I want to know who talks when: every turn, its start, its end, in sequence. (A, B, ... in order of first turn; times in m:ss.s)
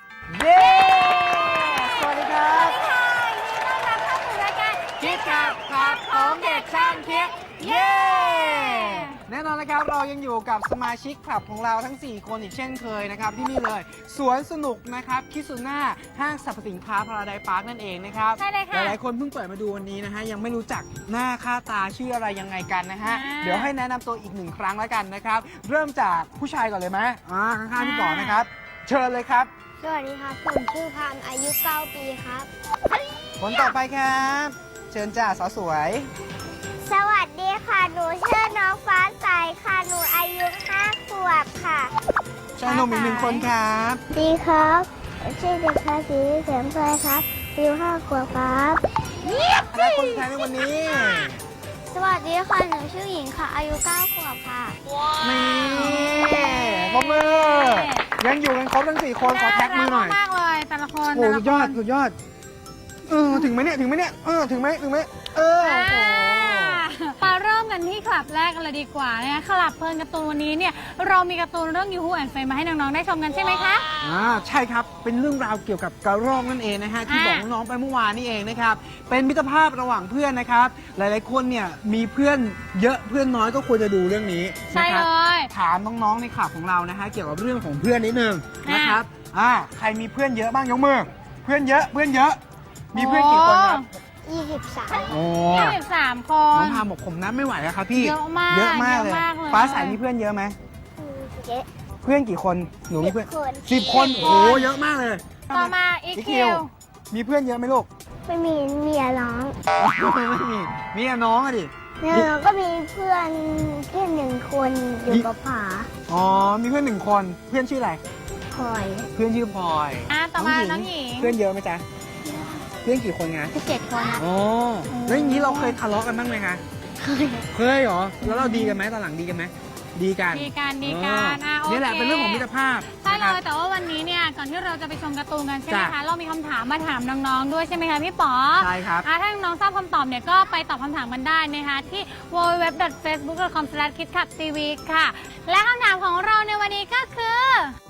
0:00.3-0:02.8 A
0:00.5-0:09.2 B
0:05.0-0:29.5 A
0:18.4-0:19.0 B
0:23.0-0:23.7 B
0:27.7-0:28.4 B
0:29.8-0:32.5 C
0:33.4-0:36.1 A
0:36.8-0:41.9 C
0:42.6-0:44.0 A
0:42.6-0:43.4 B
0:44.1-0:51.3 C
0:49.7-0:51.4 A
0:51.9-0:54.8 C
0:55.2-1:00.2 A
0:55.7-0:58.0 B
0:56.1-0:56.5 C
0:59.2-1:01.8 B
1:01.0-1:02.1 A
1:03.0-1:06.8 A
1:05.5-1:13.9 B
1:14.0-1:32.4 A
1:17.1-1:17.4 B
1:24.7-1:25.5 B
1:28.6-1:29.0 B
1:32.9-1:33.8 A
1:32.9-1:33.9 B
1:34.2-1:35.2 C
1:35.1-1:35.8 A
1:35.5-1:36.8 B
1:36.5-1:40.6 A
1:37.9-1:40.0 B
1:41.0-1:41.7 C
1:42.0-1:47.9 A
1:43.0-1:44.6 C
1:43.9-1:44.7 B
1:45.5-1:46.7 B
1:48.3-1:49.6 C
1:49.8-1:52.3 A
1:52.0-1:55.9 C
1:56.1-1:58.0 A
1:58.5-1:59.1 C
1:59.1-2:01.8 A
2:00.1-2:01.4 B
2:02.2-2:02.6 C
2:02.8-2:03.5 A
2:03.5-2:04.2 C
2:04.2-2:06.6 A
2:04.9-2:05.8 B
2:07.0-2:07.4 C
2:07.5-2:13.4 A
2:08.2-2:08.8 B
2:10.3-2:27.8 B
2:15.7-2:15.9 A
2:18.6-2:19.1 A